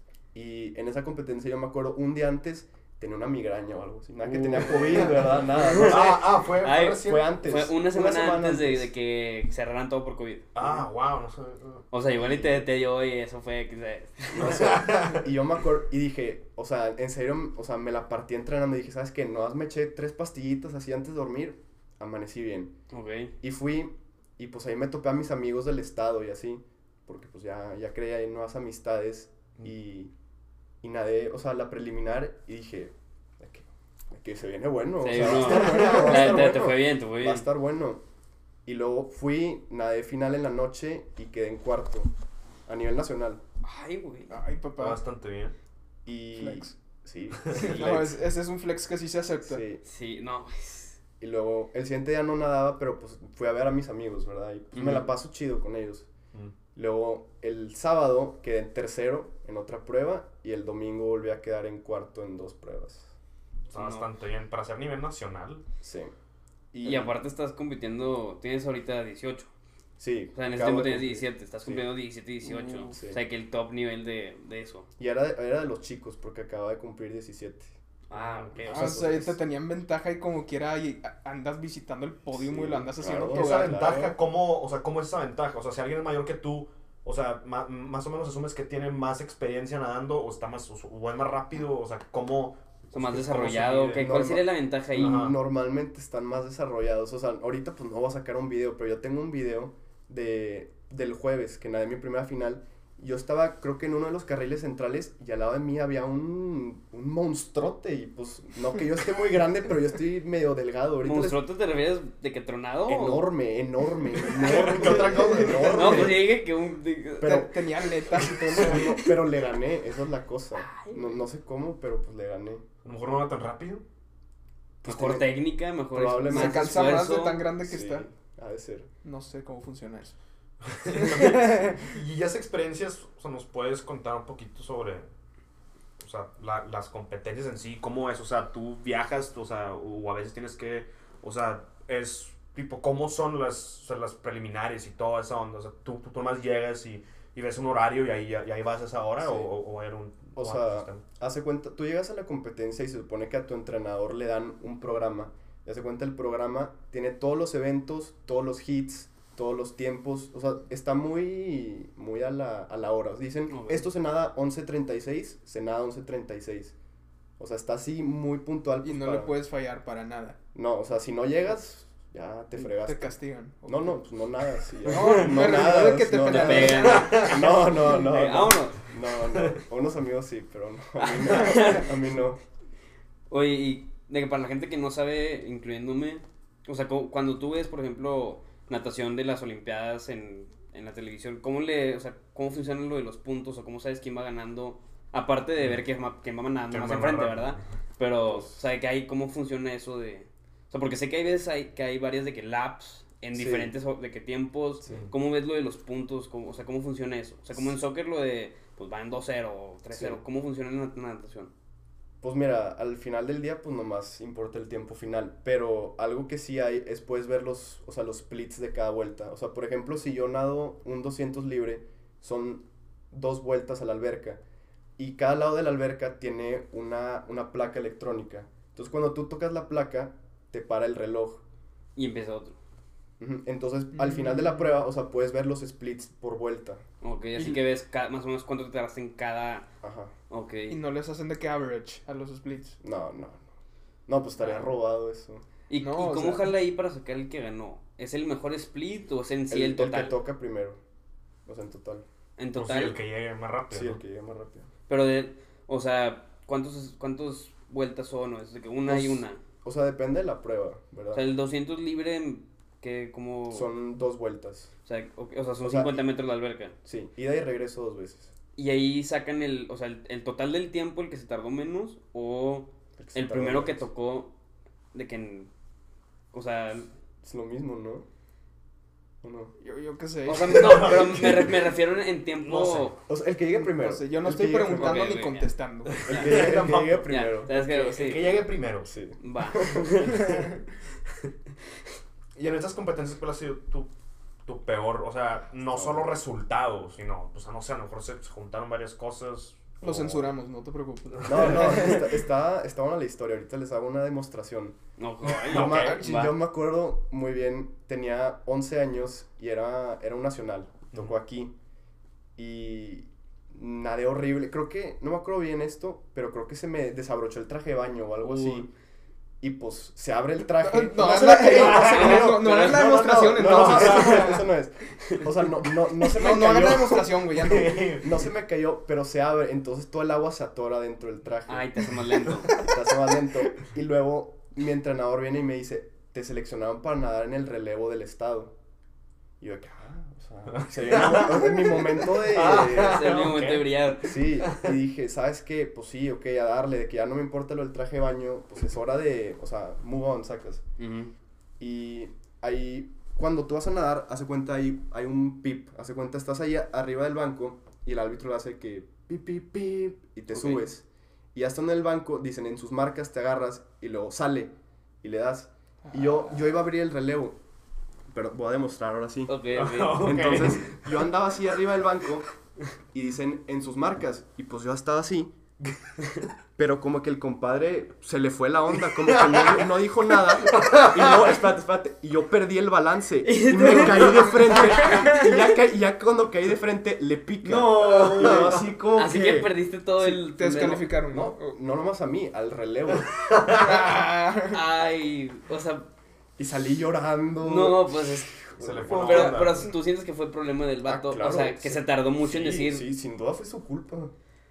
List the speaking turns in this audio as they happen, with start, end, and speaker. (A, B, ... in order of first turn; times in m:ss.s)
0:00.3-0:06.3 A
0:04.3-0:07.3 B
0:04.7-0:10.5 C
0:06.9-0:08.9 A
0:10.6-0:11.9 B
0:11.9-0:14.9 C
0:12.2-0:12.6 A
0:14.3-0:22.7 A
0:14.5-0:15.2 B
0:22.9-0:23.3 C
0:23.4-0:30.1 A
0:30.8-0:38.0 A
0:35.0-0:37.5 C
0:35.2-0:36.3 B
0:38.6-0:42.1 A
0:42.7-0:43.4 A
0:43.6-0:44.4 C
0:44.3-0:45.0 D
0:44.8-0:45.6 B
0:46.1-0:48.2 A
0:46.4-0:46.7 D
0:47.4-0:48.0 B
0:47.5-0:49.6 D
0:49.4-0:49.8 A
0:49.8-0:51.0 C
0:51.2-0:56.1 A
0:54.7-0:55.1 C
0:56.8-1:03.1 A
1:03.7-1:05.6 B
1:03.7-1:04.1 C
1:05.8-1:06.1 A
1:06.7-1:07.2 A
1:06.8-1:09.5 C
1:10.0-1:11.9 A
1:10.4-1:14.9 C
1:12.6-1:12.9 D
1:12.9-1:13.2 A
1:15.0-1:17.8 A
1:18.1-1:19.1 C
1:18.1-1:18.6 B
1:18.6-1:19.4 A
1:18.7-1:24.1 D
1:22.3-1:24.1 A
1:23.3-1:34.1 B
1:32.9-1:35.2 C
1:34.0-1:51.4 A
1:35.0-1:35.4 B
1:51.0-1:53.3 C
1:52.9-1:56.3 A
1:54.2-1:56.2 B
1:55.6-1:57.5 C
1:57.2-2:02.6 A
1:57.2-1:59.1 D
1:58.5-1:58.8 B
2:00.6-2:01.1 C
2:02.8-2:03.8 B
2:04.8-2:05.3 A
2:04.8-2:07.5 C
2:05.9-2:07.0 A
2:06.3-2:08.0 D
2:07.6-2:08.9 A
2:09.0-2:10.2 D
2:10.7-2:15.1 B
2:11.0-2:11.9 D
2:16.0-2:31.0 B
2:29.2-2:29.5 A
2:30.4-2:46.8 A
2:43.5-2:43.9 C
2:47.4-2:49.3 A
2:48.8-2:50.4 D
2:50.5-2:53.1 A
2:52.6-2:54.0 D
2:53.6-3:02.4 A
2:54.8-2:57.1 D
2:54.9-2:55.2 C
2:56.2-2:58.9 C
2:56.7-2:57.5 B
3:01.0-3:01.9 C
3:03.3-3:31.5 C
3:16.7-3:17.7 B
3:18.3-3:18.6 A
3:23.3-3:23.7 A
3:29.9-3:30.2 A
3:32.2-3:44.4 A
3:45.0-3:51.4 A
3:52.0-3:52.6 C
3:53.2-3:56.8 A
3:53.9-3:54.6 D
3:57.0-3:59.7 C
3:59.8-4:00.1 A
4:00.3-4:00.8 C
4:00.7-4:02.8 D
4:02.8-4:03.4 A
4:04.1-4:05.5 A
4:05.7-4:10.2 C
4:05.8-4:06.5 D
4:09.5-4:10.8 A
4:11.5-4:12.0 A
4:12.4-4:13.0 C
4:12.6-4:14.0 B
4:13.7-4:14.7 A
4:14.9-4:19.4 C
4:18.9-4:21.2 A
4:21.1-4:23.7 C
4:23.5-4:24.7 A
4:24.9-4:26.8 C
4:25.6-4:26.0 A
4:26.8-4:28.3 A
4:28.6-4:34.3 C
4:33.0-4:33.9 A
4:34.9-4:35.5 C
4:36.3-4:36.9 C
4:37.2-4:38.1 A
4:39.2-4:39.6 A
4:39.6-4:40.9 D
4:40.3-4:43.0 C
4:40.4-4:41.7 B
4:42.4-4:43.0 B
4:43.1-4:45.2 A
4:43.6-4:46.1 D
4:44.7-4:46.6 C
4:46.0-4:47.6 A
4:46.1-4:48.9 B
4:47.1-4:48.4 C
4:48.8-4:50.1 A
4:49.2-4:50.5 C
4:52.4-4:53.9 B
4:54.4-5:00.3 B
4:55.7-4:56.2 A
4:59.8-5:02.1 D
5:01.2-5:01.6 B
5:01.2-5:04.8 A
5:05.0-5:06.4 C
5:05.3-5:06.0 B
5:05.4-5:11.5 A
5:12.4-5:18.7 A
5:18.2-5:18.6 C
5:19.4-5:27.1 A
5:20.6-5:24.4 D
5:21.4-5:24.4 B
5:21.8-5:22.9 C
5:26.0-5:27.9 D
5:26.9-5:28.2 B
5:28.0-5:38.5 A
5:31.5-5:32.6 C
5:39.4-5:43.3 A
5:40.5-5:43.7 B
5:42.8-5:44.2 C
5:44.0-5:50.6 A
5:44.4-5:44.7 B
5:50.8-5:51.1 C
5:51.6-6:07.4 A
6:00.3-6:00.7 C
6:05.9-6:06.5 D
6:08.1-6:09.4 A
6:09.3-6:10.5 C
6:09.5-6:11.1 B
6:09.9-6:12.3 A
6:12.9-6:15.3 A
6:16.6-6:29.5 A
6:19.0-6:19.7 B
6:20.5-6:21.2 B
6:23.2-6:25.2 C
6:27.4-6:30.9 C
6:27.6-6:28.5 D
6:30.0-6:31.4 D
6:31.1-6:33.3 A
6:33.3-6:33.6 B
6:33.5-6:34.6 D
6:34.4-6:35.9 C
6:36.4-6:39.3 A
6:37.4-6:38.4 C
6:38.6-6:39.7 B
6:38.9-6:42.9 C
6:38.9-6:39.5 D
6:40.8-6:44.1 A